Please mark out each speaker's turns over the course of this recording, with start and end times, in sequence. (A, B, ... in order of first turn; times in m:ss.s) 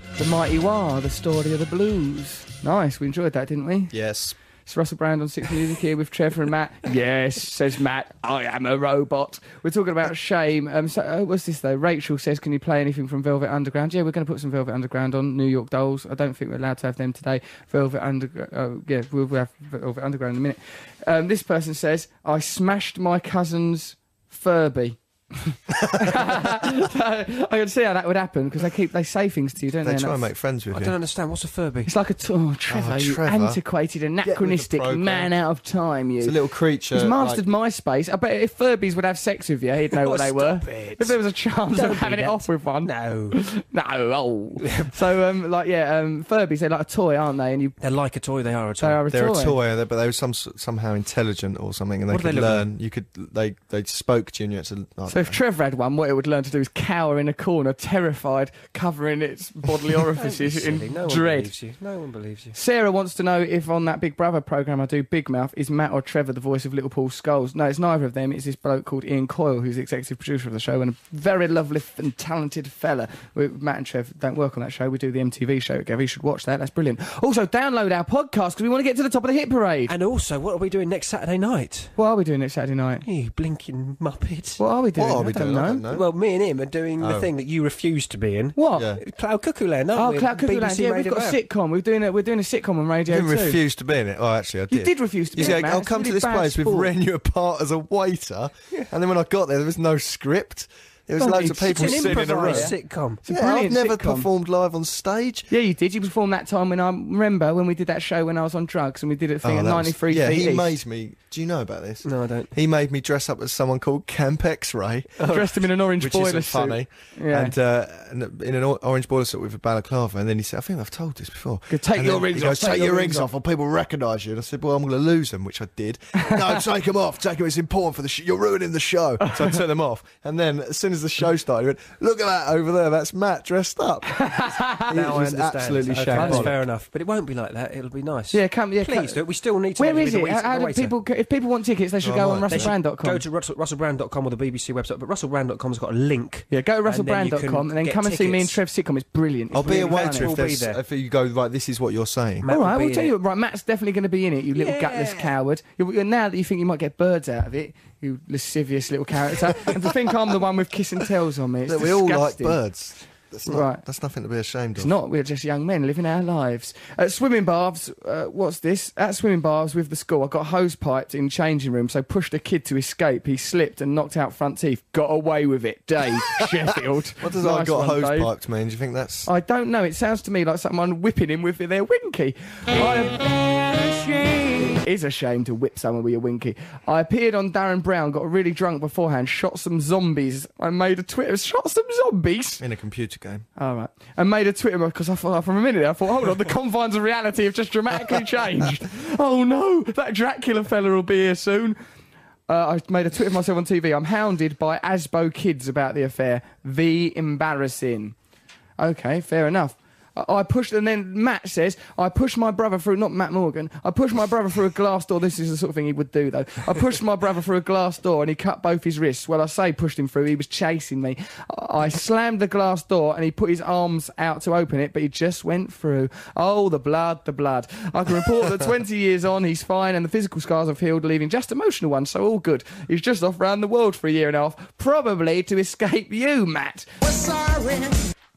0:00.2-0:03.9 A
0:03.9-0:04.4 B
0:04.7-0:30.3 A
0:26.0-0:26.3 B
0:29.8-0:31.0 B
0:30.7-0:31.9 C
0:31.9-0:36.4 A
0:32.7-0:33.6 B
0:34.2-0:35.3 B
0:36.2-0:37.4 B
0:36.9-0:47.8 A
0:39.9-0:41.2 C
0:41.7-0:43.4 C
0:44.6-0:44.9 C
0:47.8-0:49.0 C
0:48.8-0:49.6 A
0:49.1-0:55.4 B
0:52.1-0:52.7 C
0:55.1-1:01.5 A
1:00.1-1:02.6 C
1:02.5-1:19.9 A
1:19.9-1:22.0 C
1:22.0-1:23.0 A
1:23.0-1:24.6 C
1:24.6-1:25.8 A
1:25.0-1:26.1 B
1:25.9-1:31.4 C
1:27.0-1:27.3 B
1:28.6-1:28.9 A
1:30.0-1:33.6 A
1:33.1-1:42.7 B
1:34.7-1:36.9 A
1:41.2-1:44.3 A
1:41.6-1:43.2 C
1:43.3-1:45.5 B
1:45.5-1:50.7 A
1:49.4-1:55.3 B
1:52.0-1:52.5 C
1:55.2-1:55.6 C
1:55.3-1:57.5 A
1:56.0-2:14.2 B
2:01.7-2:03.3 A
2:14.2-2:15.0 A
2:14.9-2:16.6 B
2:14.9-2:21.0 C
2:16.1-2:16.5 A
2:18.3-2:19.2 A
2:19.8-2:23.2 A
2:22.0-2:22.7 B
2:22.5-2:28.6 C
2:26.5-2:30.4 A
2:29.5-2:32.5 B
2:29.6-2:30.8 C
2:32.4-2:33.2 C
2:32.5-2:42.6 A
2:34.6-2:35.4 C
2:41.7-2:45.0 B
2:43.5-2:43.8 A
2:44.8-2:58.3 A
2:57.2-2:59.3 B
2:59.3-3:12.6 A
3:12.6-3:13.4 B
3:13.6-3:21.8 A
3:22.5-3:28.2 A
3:28.8-3:56.9 A